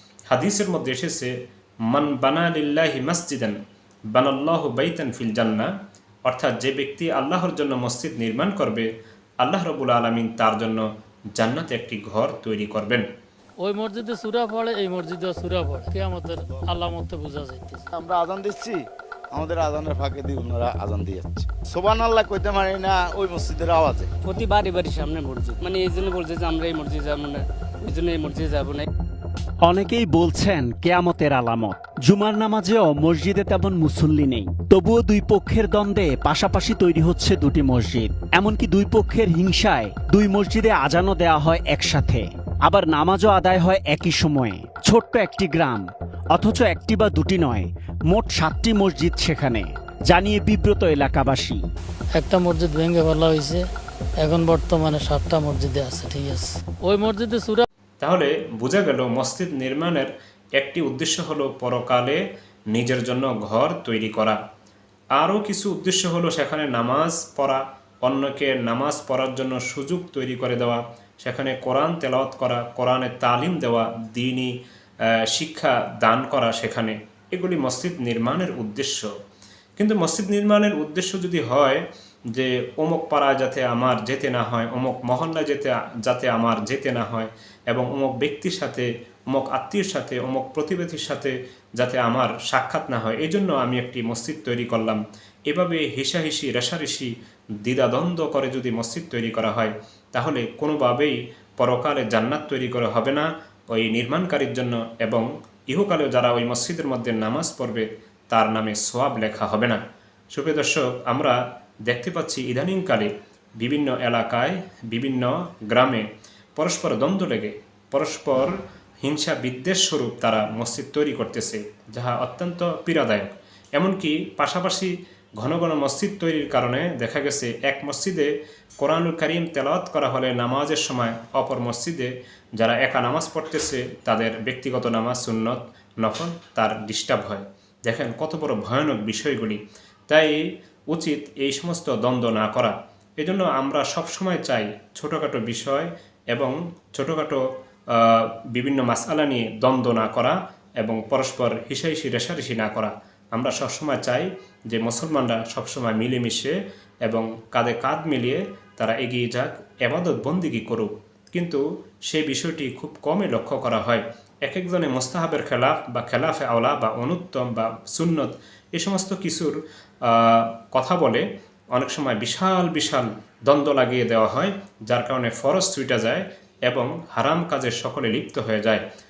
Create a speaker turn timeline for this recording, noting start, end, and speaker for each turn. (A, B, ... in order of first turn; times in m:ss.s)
0:00.3-0:01.3 A
0:01.9-0:03.6 A
0:04.1-0:05.7 A
0:06.2-0:08.9 A
0:09.4-0:10.8 A
0:11.4-0:13.1 A
0:13.6-0:17.9 B
0:17.9-0:24.1 C
0:24.2-0:28.9 D
0:29.6-0:51.6 E
0:52.2-0:53.6 B
0:54.2-0:57.6 B
0:58.0-1:02.2 A
1:02.7-1:04.4 A
1:05.2-1:14.5 A
1:15.3-1:19.1 A
1:19.8-1:21.8 A
1:22.3-1:37.1 A
1:37.6-1:49.8 A
1:50.3-1:56.0 A
1:56.6-2:20.4 A
2:20.9-2:27.4 A
2:27.9-2:51.2 A
2:51.7-2:58.8 A